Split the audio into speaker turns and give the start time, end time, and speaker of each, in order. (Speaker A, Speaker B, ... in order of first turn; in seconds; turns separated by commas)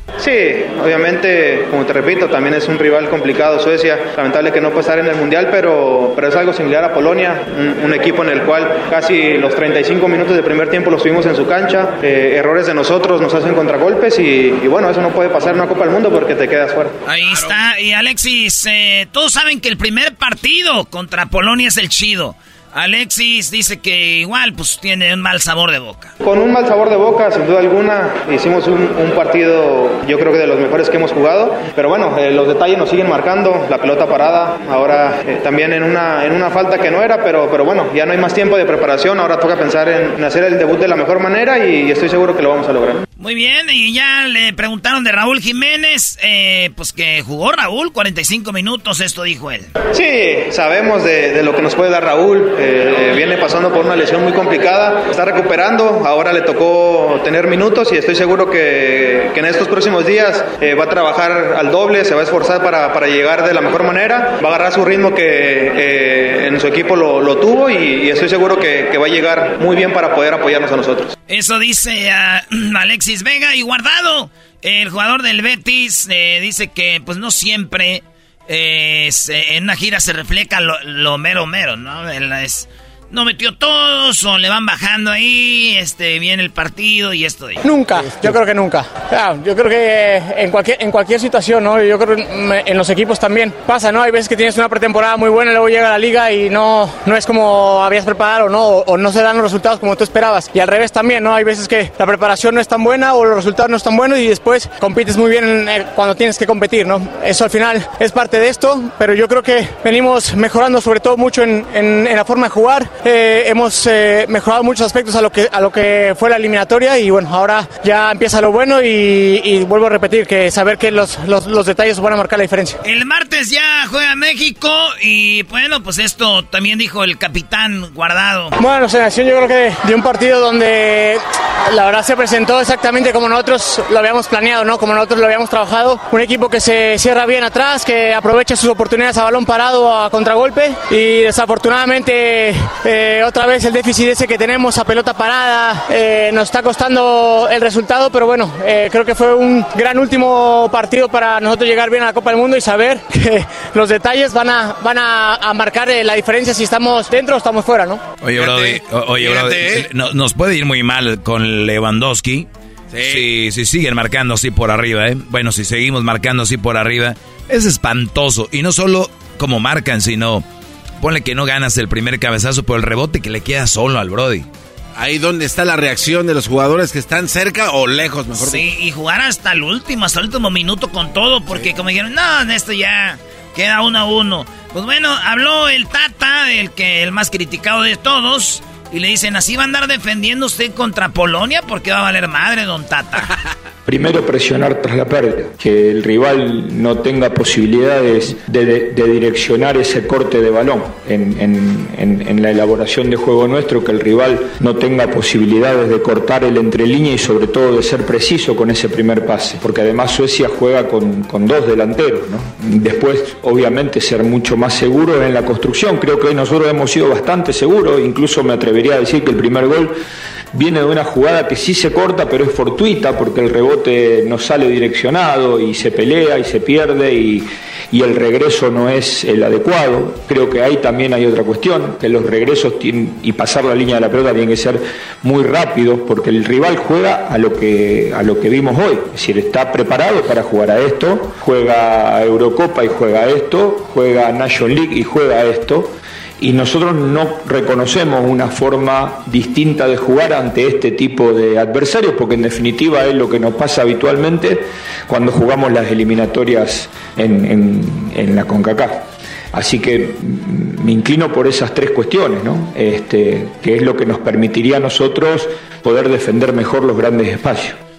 Speaker A: 0.2-16.9, Speaker B: 17.1-26.1, Speaker C: 17.3-17.5, Speaker A: 26.2-43.0, Speaker B: 43.2-49.7, Speaker A: 49.9-71.1, Speaker B: 71.3-87.6, Speaker D: 87.6-122.8, Speaker B: 122.8-128.5, Speaker D: 128.6-158.0, Speaker E: 158.2-162.5, Speaker C: 158.4-159.9, Speaker C: 162.9-163.3, Speaker E: 163.0-170.4, Speaker E: 171.0-174.5, Speaker C: 175.0-178.6, Speaker B: 178.4-193.3, Speaker F: 193.9-220.0, Speaker F: 220.5-267.8